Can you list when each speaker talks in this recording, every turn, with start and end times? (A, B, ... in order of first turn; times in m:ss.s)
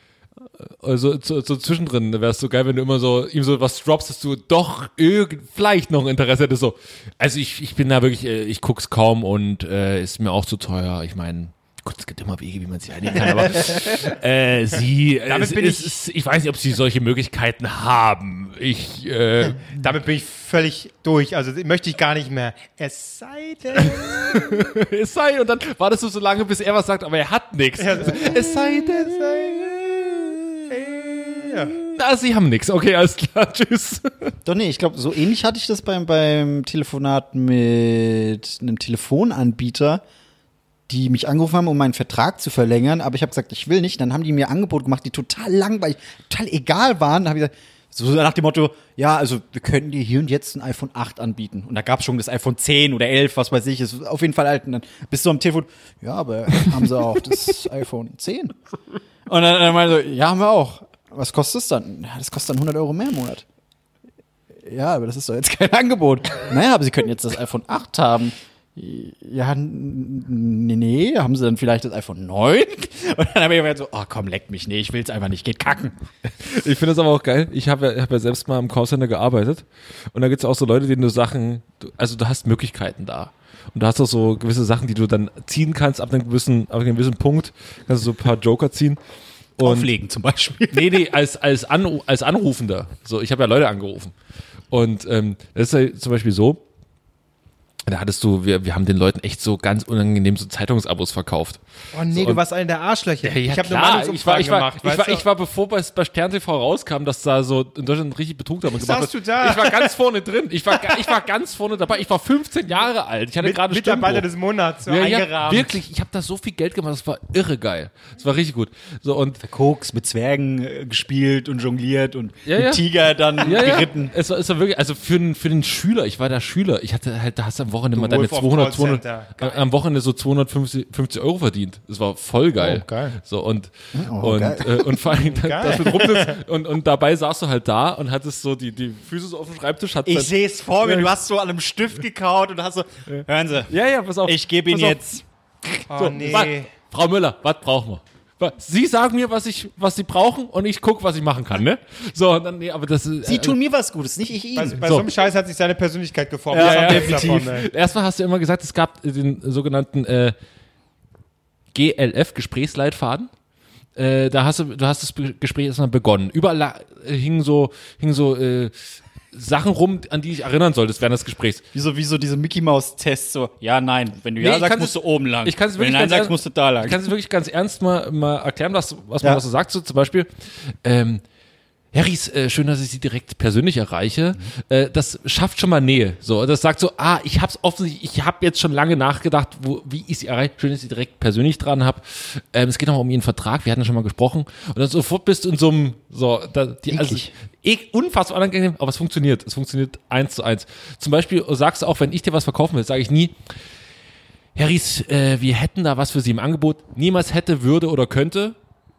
0:00.4-0:19.8 A
0:15.3-0:16.0 B
0:19.6-0:24.7 C
0:23.8-0:34.3 A
0:27.8-0:29.6 C
0:30.7-0:31.8 C
0:34.4-0:40.0 B
0:40.9-0:58.5 B
0:59.3-1:03.4 B
1:04.6-1:16.0 B
1:16.4-1:29.0 A
1:29.6-1:29.9 A
1:29.6-1:31.0 B
1:30.7-1:34.1 A
1:34.7-1:36.6 A
1:37.9-1:42.4 A
1:41.9-1:45.2 C
1:43.2-1:54.3 A
1:48.6-1:49.9 C
1:50.7-1:51.2 C
1:53.4-1:55.8 C
1:54.9-1:59.4 A
1:59.4-2:04.1 B
2:02.4-2:02.8 A
2:03.4-2:20.3 A
2:07.9-2:09.6 C
2:12.6-2:13.2 C
2:13.9-2:15.0 B
2:15.2-2:16.4 C
2:20.0-2:23.7 B
2:20.8-2:21.1 A
2:23.1-2:25.0 A
2:24.2-2:25.2 B
2:25.9-2:26.7 C
2:25.9-2:33.6 A
2:33.2-2:34.8 B
2:34.5-2:37.7 C
2:34.8-2:35.1 A
2:36.5-2:40.3 A
2:41.7-2:43.3 A
2:44.0-2:51.6 A
2:51.7-2:57.0 B
2:54.4-3:01.2 A
3:01.9-3:23.4 A
3:16.9-3:17.3 B
3:24.5-3:28.5 A